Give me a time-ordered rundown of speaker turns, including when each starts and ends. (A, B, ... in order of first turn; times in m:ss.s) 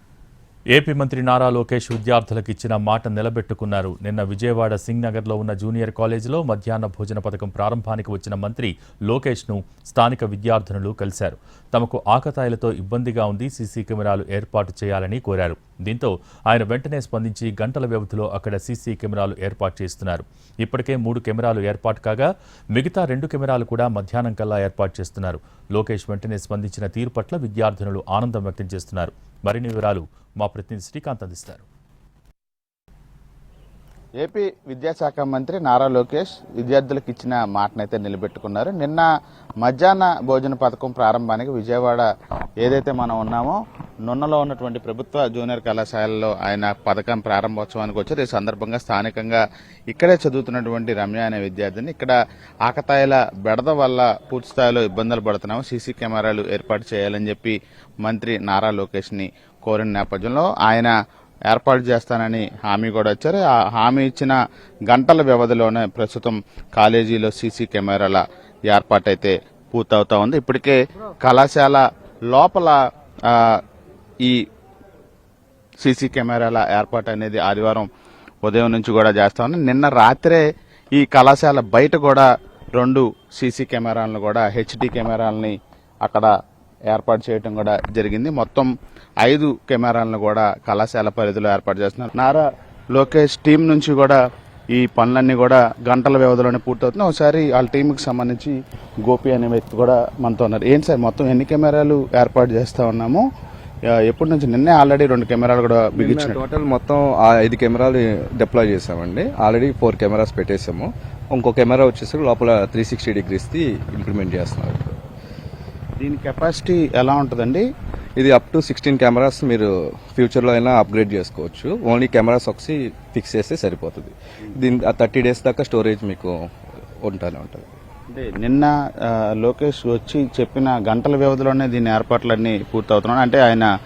0:00.7-0:31.6 A
0:34.2-0:39.1 B
0:39.6-0:42.1 B
0:42.6-1:00.9 B
1:01.5-1:04.4 B
1:04.9-1:12.8 B
1:13.3-1:13.6 B
1:15.8-1:17.9 B
1:18.4-1:20.4 B
1:20.9-1:26.3 B
1:26.9-1:28.7 B
1:29.2-1:34.2 B
1:34.7-1:43.2 B
1:44.0-1:46.4 B
1:45.9-1:55.0 C
1:56.0-1:57.6 B
1:58.2-2:06.3 C
2:07.0-2:07.7 C
2:08.1-2:13.7 B